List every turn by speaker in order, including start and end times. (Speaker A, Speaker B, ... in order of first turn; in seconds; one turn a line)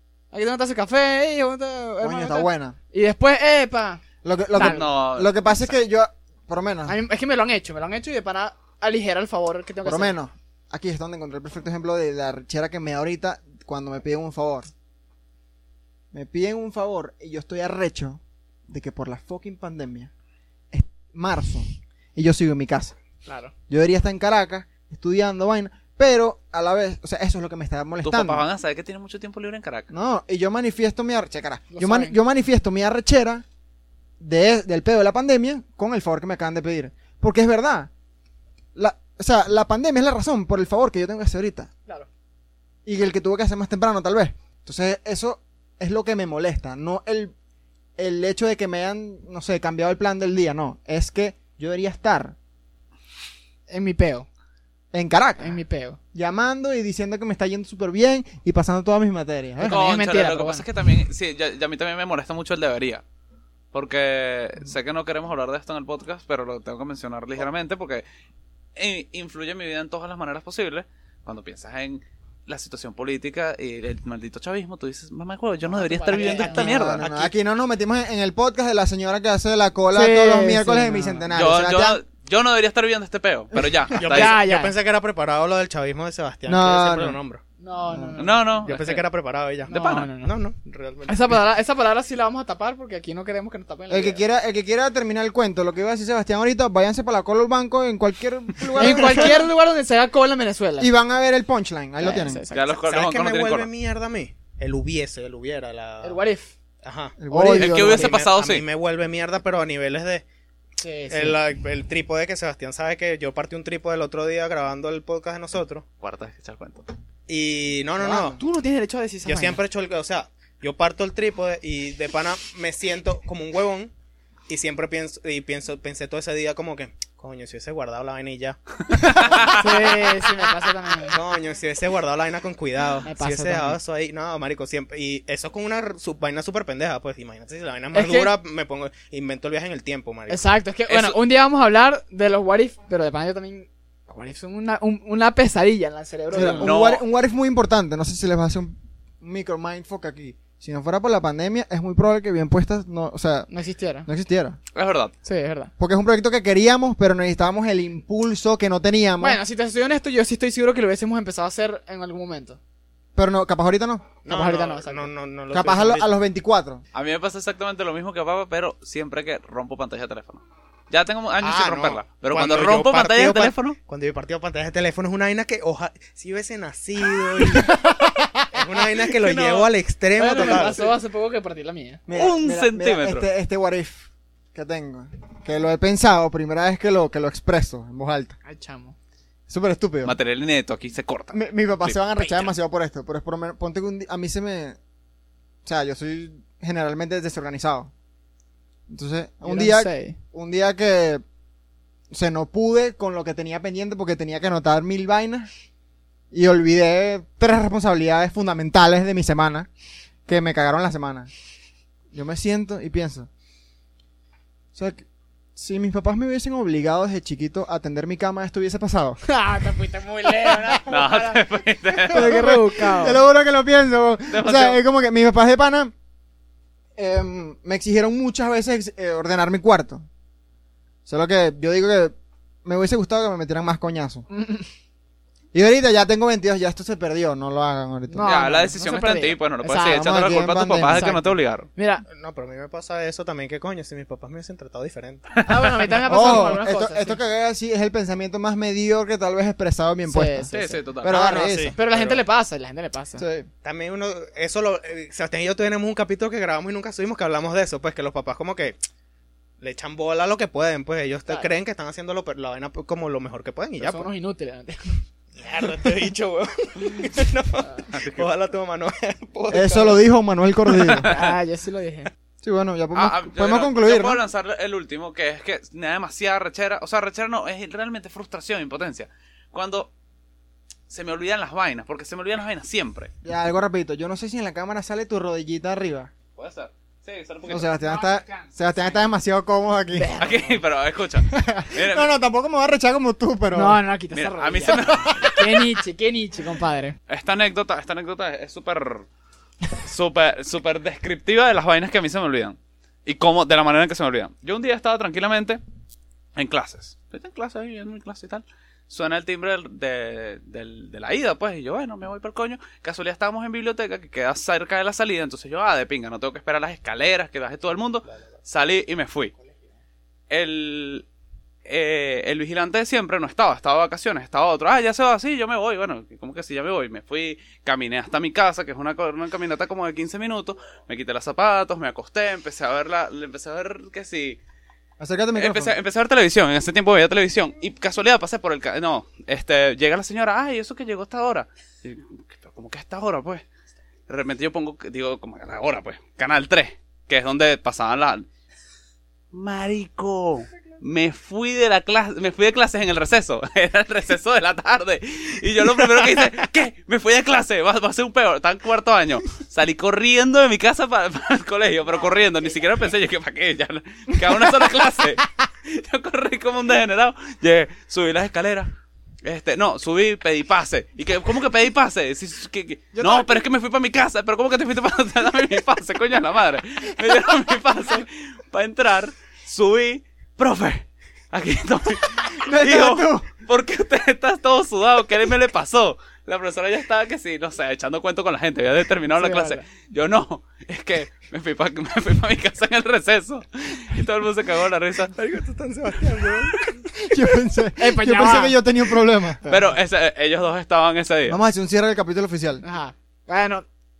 Speaker A: 0.3-4.0
Speaker B: 2.0-2.8
Speaker B: 4.2-7.0
Speaker C: 4.5-5.8
Speaker A: 4.6-4.9
Speaker A: 6.9-10.2
Speaker B: 9.8-14.7
Speaker B: 16.1-20.1
Speaker B: 20.7-23.0
Speaker A: 23.2-23.5
Speaker B: 23.7-28.4
Speaker C: 28.0-29.9
Speaker B: 29.9-33.5
Speaker A: 31.7-32.2
Speaker B: 34.2-37.9
Speaker B: 38.8-41.7
Speaker B: 42.9-47.3
Speaker B: 48.0-52.4
Speaker A: 53.7-54.3
Speaker B: 54.9-55.6
Speaker A: 55.4-56.0
Speaker B: 56.1-59.8
Speaker A: 59.6-60.6
Speaker C: 59.6-63.0
Speaker C: 63.7-68.0
Speaker C: 68.8-77.1
Speaker A: 75.7-77.0
Speaker B: 76.2-82.0
Speaker D: 77.0-77.3
Speaker A: 79.9-81.3
Speaker C: 81.3-84.4
Speaker B: 83.5-84.0
Speaker D: 84.0-87.4
Speaker A: 84.1-84.8
Speaker B: 86.5-87.2
Speaker A: 87.6-88.5
Speaker B: 87.9-88.2
Speaker C: 88.2-89.0
Speaker D: 88.6-91.4
Speaker C: 89.7-90.1
Speaker A: 89.7-90.4
Speaker A: 91.1-94.2
Speaker B: 93.9-99.5
Speaker A: 98.8-100.9
Speaker B: 100.8-102.4
Speaker A: 102.0-102.8
Speaker C: 102.5-103.7
Speaker D: 102.8-106.2
Speaker A: 106.0-106.5
Speaker D: 106.8-107.2
Speaker B: 107.2-108.1
Speaker A: 107.3-108.2
Speaker C: 107.5-108.6
Speaker D: 107.8-110.2
Speaker A: 110.8-111.4
Speaker D: 111.1-115.8
Speaker C: 116.0-116.9
Speaker D: 117.3-118.4
Speaker A: 118.0-119.6
Speaker B: 118.0-118.3
Speaker D: 119.2-123.9
Speaker D: 124.5-130.1
Speaker C: 128.9-130.0
Speaker A: 129.1-131.2
Speaker D: 131.1-140.4
Speaker A: 133.1-133.8
Speaker A: 137.9-138.3
Speaker A: 140.3-146.7
Speaker C: 140.9-141.2
Speaker B: 146.3-153.5
Speaker C: 146.4-147.0
Speaker A: 153.5-154.1
Speaker B: 154.1-154.6
Speaker C: 154.8-155.1
Speaker A: 155.2-155.7
Speaker B: 155.8-159.4
Speaker A: 159.2-162.6
Speaker B: 163.2-164.2
Speaker D: 164.2-166.1
Speaker A: 164.3-165.1
Speaker B: 165.5-166.8
Speaker C: 166.9-173.8
Speaker D: 171.4-177.7
Speaker B: 177.5-178.5
Speaker D: 178.5-180.9
Speaker A: 179.2-179.6
Speaker A: 180.2-182.0
Speaker B: 182.1-188.4
Speaker C: 182.1-183.3
Speaker A: 188.4-188.9
Speaker B: 189.5-190.2
Speaker C: 190.0-192.5
Speaker B: 191.3-194.8
Speaker B: 195.7-197.9
Speaker B: 198.9-201.2
Speaker A: 199.4-200.2
Speaker B: 202.1-205.5
Speaker B: 206.3-209.7
Speaker B: 210.3-211.3
Speaker B: 212.1-213.3
Speaker B: 214.8-219.2
Speaker A: 219.3-223.2
Speaker B: 220.4-220.8
Speaker C: 220.9-222.4
Speaker B: 222.1-225.9
Speaker C: 224.3-224.8
Speaker B: 227.0-230.1
Speaker B: 231.1-234.3
Speaker A: 234.3-234.7
Speaker B: 235.5-238.5
Speaker A: 238.1-240.2
Speaker C: 238.2-241.7
Speaker B: 239.8-241.1
Speaker A: 240.9-242.1
Speaker D: 242.1-245.3
Speaker C: 245.4-246.4
Speaker A: 245.4-247.2
Speaker B: 246.1-251.8
Speaker A: 250.1-253.2
Speaker C: 250.5-251.3
Speaker D: 251.1-252.2
Speaker B: 253.2-253.5
Speaker D: 253.6-258.8
Speaker D: 259.6-264.1
Speaker A: 263.8-265.0
Speaker D: 265.4-270.0
Speaker C: 267.9-268.3
Speaker B: 269.5-271.1
Speaker C: 270.7-271.3
Speaker A: 271.1-272.1
Speaker B: 272.4-274.2
Speaker C: 272.9-279.9
Speaker C: 280.9-283.1
Speaker B: 283.2-286.1
Speaker C: 286.4-287.7
Speaker B: 287.5-290.1
Speaker A: 287.9-288.5
Speaker A: 289.9-290.5
Speaker C: 290.2-292.1
Speaker B: 291.2-293.8
Speaker A: 293.5-297.0
Speaker C: 294.1-295.4
Speaker B: 294.7-295.6
Speaker C: 297.1-299.1
Speaker C: 299.8-305.6
Speaker C: 306.4-319.3
Speaker C: 320.3-321.1
Speaker C: 321.7-334.4
Speaker B: 335.0-335.7
Speaker C: 335.4-343.4
Speaker C: 344.1-348.3
Speaker C: 349.3-368.7
Speaker A: 362.0-362.7
Speaker C: 369.2-395.4
Speaker B: 372.9-373.4
Speaker B: 382.3-383.3
Speaker A: 389.1-389.6
Speaker D: 395.2-396.8
Speaker B: 397.0-399.7
Speaker A: 397.8-398.6
Speaker C: 399.5-401.4
Speaker B: 401.3-402.6
Speaker A: 402.6-403.7